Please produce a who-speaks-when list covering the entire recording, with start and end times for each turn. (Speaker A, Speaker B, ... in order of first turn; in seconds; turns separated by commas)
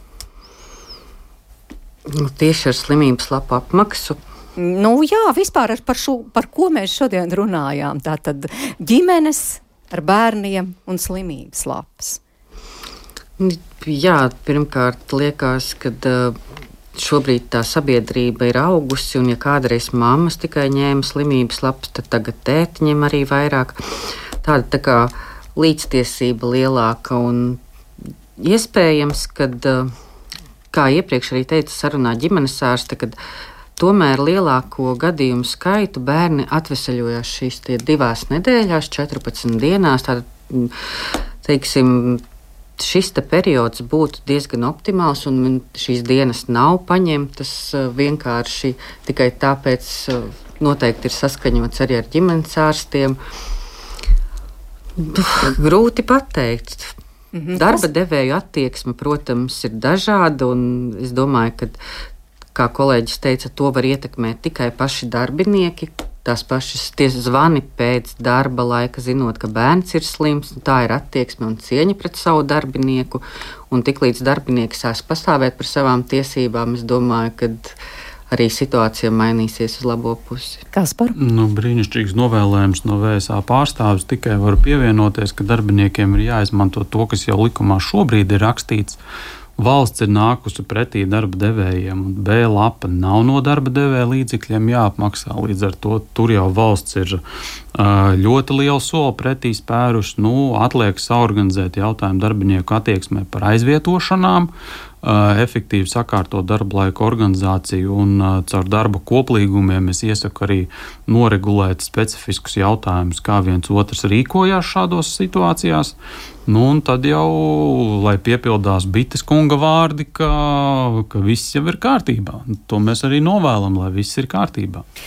Speaker A: 2.0-4.2, Speaker B: 4.6-12.2, Speaker A: 13.4-16.4, Speaker A: 16.9-27.6, Speaker A: 28.4-29.9, Speaker A: 30.7-33.2, Speaker A: 33.8-42.2, Speaker A: 42.8-53.2, Speaker A: 55.0-56.9, Speaker B: 57.3-57.8, Speaker A: 57.5-61.8, Speaker A: 62.5-77.8, Speaker A: 78.3-80.6, Speaker B: 80.7-81.1, Speaker C: 81.1-89.0, Speaker C: 89.6-97.2, Speaker C: 97.7-104.5, Speaker C: 105.0-116.0, Speaker C: 116.5-124.8